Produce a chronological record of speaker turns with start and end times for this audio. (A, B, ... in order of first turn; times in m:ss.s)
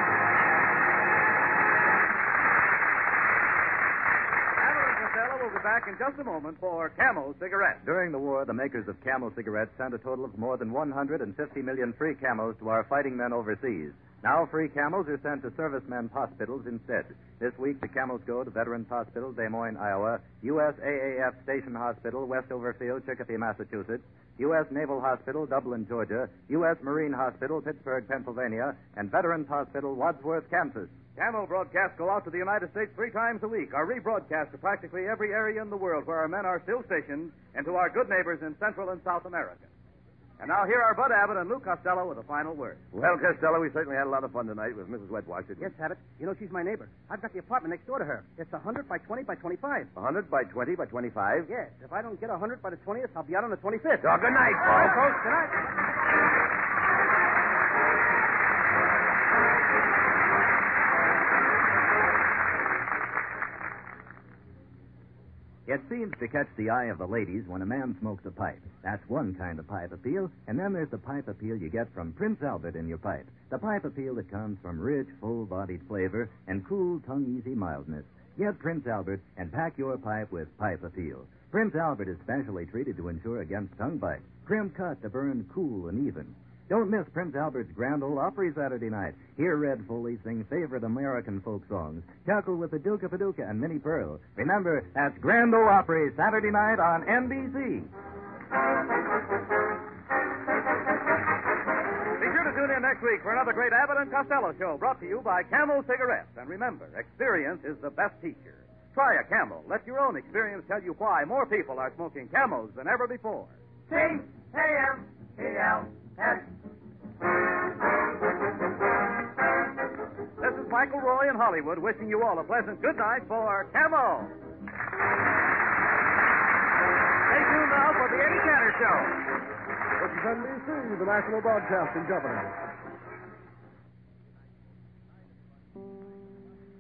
0:04.6-0:07.8 A
0:07.8-0:31.0 B
0:31.1-0:39.7 A
0:40.4-0:42.8 A
0:42.9-0:45.7 C
0:45.6-0:49.9 D
0:49.9-0:51.5 C
0:51.5-0:55.6 D
0:54.0-0:55.0 C
1:05.6-1:37.9 B
1:42.2-1:53.5 A
1:53.9-1:56.4 C
2:00.4-2:04.3 A
2:07.3-2:09.1 A
2:10.0-2:12.5 E